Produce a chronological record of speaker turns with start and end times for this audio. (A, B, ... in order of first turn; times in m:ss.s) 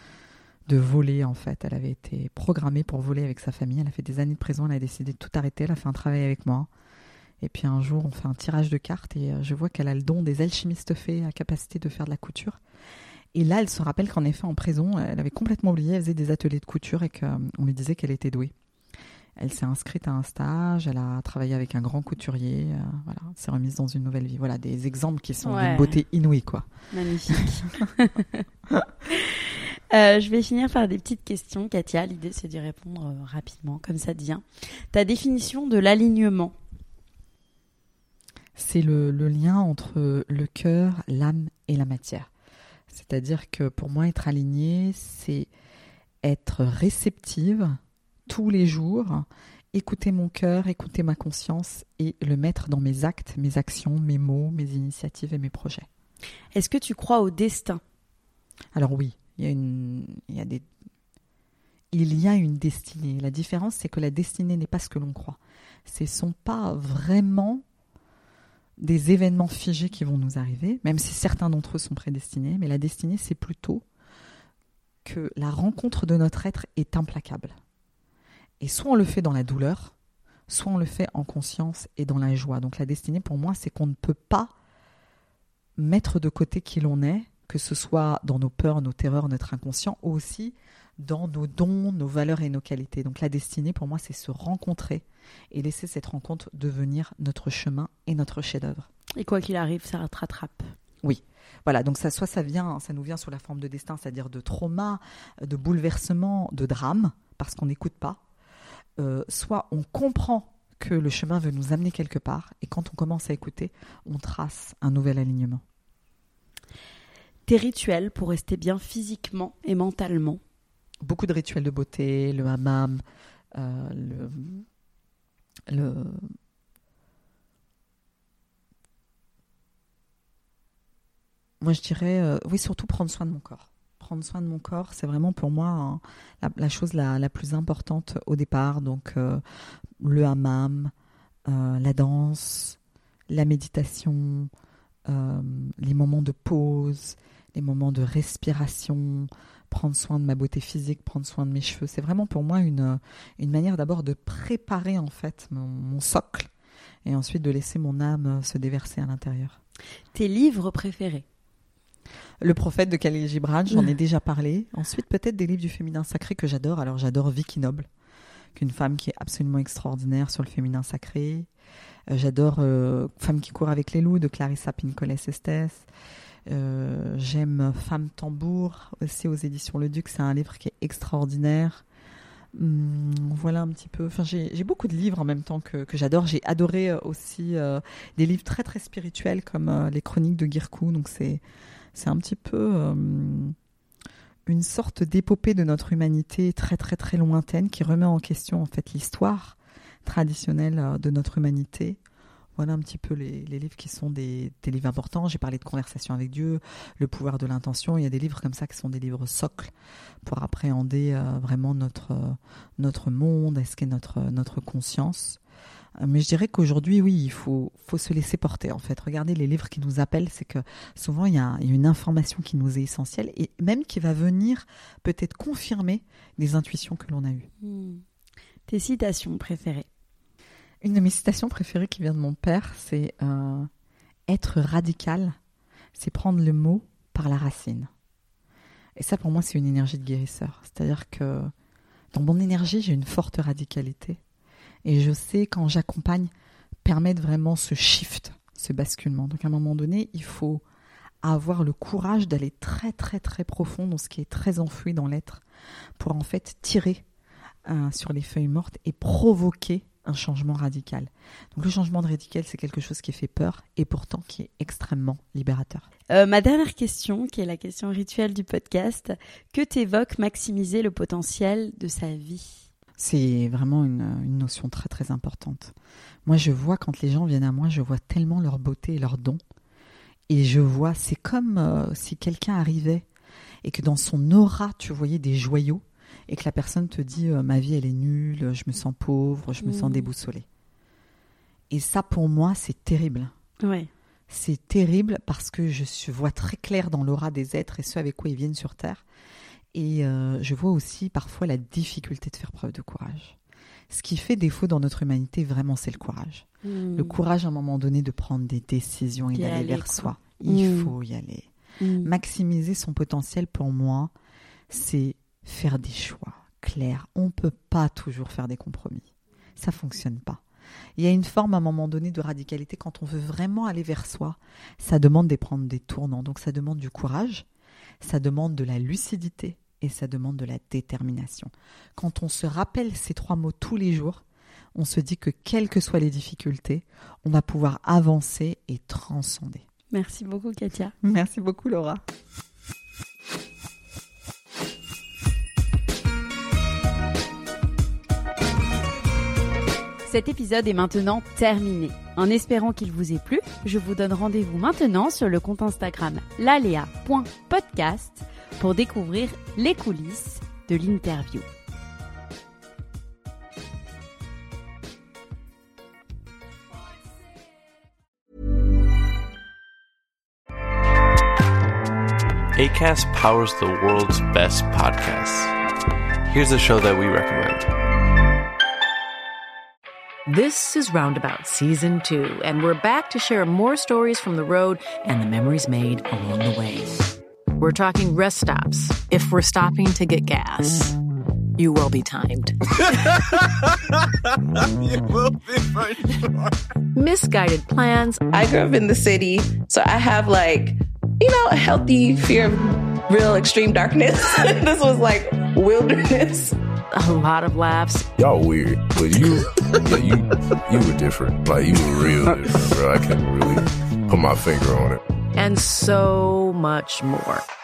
0:00.7-0:06.7 A
0:07.4-0:12.6 A
0:13.3-0:18.5 A
0:19.4-0:26.7 A
0:25.4-0:25.9 B
0:26.9-0:28.4 B
0:29.1-0:36.5 B
0:38.6-0:42.3 A
0:42.9-0:45.5 A
0:46.2-0:55.9 A
0:56.5-0:57.8 B
0:58.7-1:00.6 A
1:01.9-1:07.6 A
1:08.8-1:13.8 A
1:15.0-1:17.6 A
1:18.6-1:19.9 A
1:20.5-1:24.5 A
1:25.8-1:38.9 A
1:39.2-1:40.7 B
1:41.0-1:48.2 A
1:49.0-1:55.6 A
1:57.5-2:00.4 B
2:01.0-2:03.0 A
2:03.5-2:04.6 A
2:05.7-2:06.3 A
2:11.6-2:19.4 A
2:20.0-2:20.9 A
2:21.5-2:22.8 A
2:23.3-2:24.5 A
2:25.1-2:36.5 A
2:37.0-2:39.6 A
2:40.1-2:41.2 B
2:42.4-2:47.9 A
2:48.6-2:51.5 A
2:52.1-2:55.9 A
2:56.5-3:01.8 A
3:02.5-3:11.4 A
3:11.9-3:13.6 A
3:14.4-3:22.0 A
3:22.6-3:29.7 A
3:30.2-3:35.4 A
3:36.0-3:47.5 A
3:47.6-3:48.0 B
3:48.7-3:49.9 B
3:50.8-3:53.7 A
3:54.3-3:55.4 A
3:55.9-3:57.9 A
3:59.0-4:01.5 A
4:02.1-4:04.2 A
4:04.8-4:06.3 A
4:06.8-4:10.6 A
4:11.2-4:15.4 A
4:16.0-4:17.0 A
4:17.6-4:25.8 A
4:26.1-4:32.7 B
4:33.0-4:35.7 A
4:36.2-4:39.4 A
4:40.3-4:43.0 A
4:43.6-4:50.4 A
4:49.6-4:50.1 B
4:51.7-4:53.3 A
4:53.6-4:53.9 B
4:54.3-4:59.0 A
4:59.7-5:03.4 A
5:03.9-5:11.5 A
5:06.6-5:07.2 B
5:09.3-5:10.9 B
5:11.8-5:12.1 B
5:12.0-5:14.1 A
5:14.7-5:20.4 A
5:21.0-5:27.4 A
5:28.0-5:34.2 A
5:34.7-5:39.6 A
5:39.9-5:40.9 B
5:41.0-5:42.0 A
5:50.0-6:01.5 B
6:12.5-6:15.5 C
6:16.3-6:17.7 C
6:20.3-6:30.9 D
6:31.6-6:33.5 D
6:36.9-6:38.2 D
6:38.3-6:46.6 E
6:46.9-6:48.1 D
6:48.2-6:55.0 F
6:55.3-6:57.4 D